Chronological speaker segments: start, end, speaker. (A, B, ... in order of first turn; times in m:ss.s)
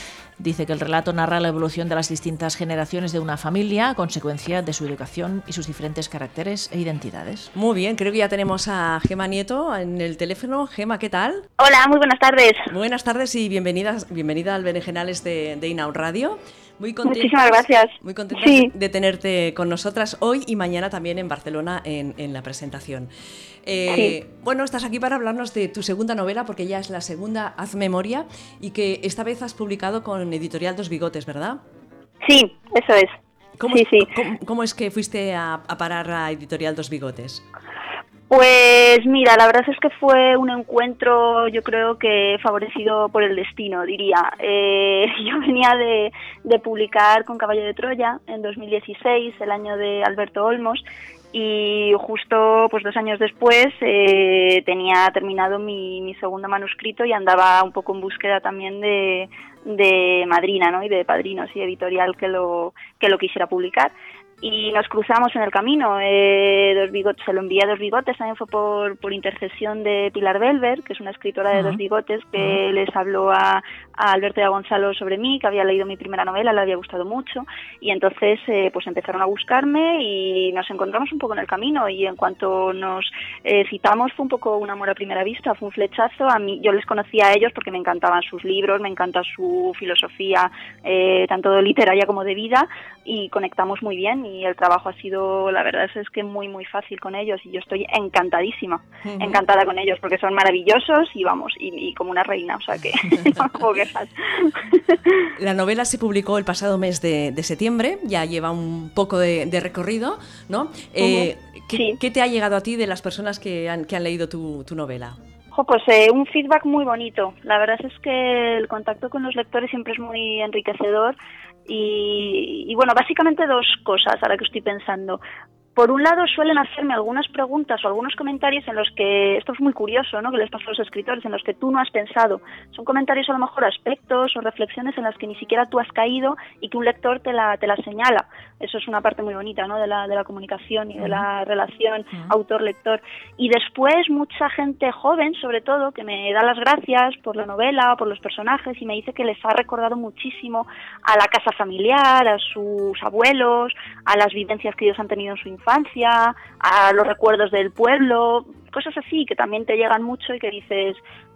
0:00.4-0:07.5 A
0:07.5-0:11.4 B
0:11.6-0:12.7 C
0:12.7-0:23.1 B
0:17.0-0:18.7 C
0:23.6-0:31.6 B
0:23.9-0:24.1 C
0:32.2-0:33.1 C
0:33.6-0:37.4 B
0:33.7-0:34.1 C
0:38.3-1:45.3 C
1:11.5-1:11.8 A
1:39.0-1:39.4 B
1:45.4-1:55.2 B
1:51.0-1:52.0 C
1:55.5-2:01.2 C
2:01.7-2:05.2 C
2:05.8-2:41.0 C
2:21.0-2:21.2 A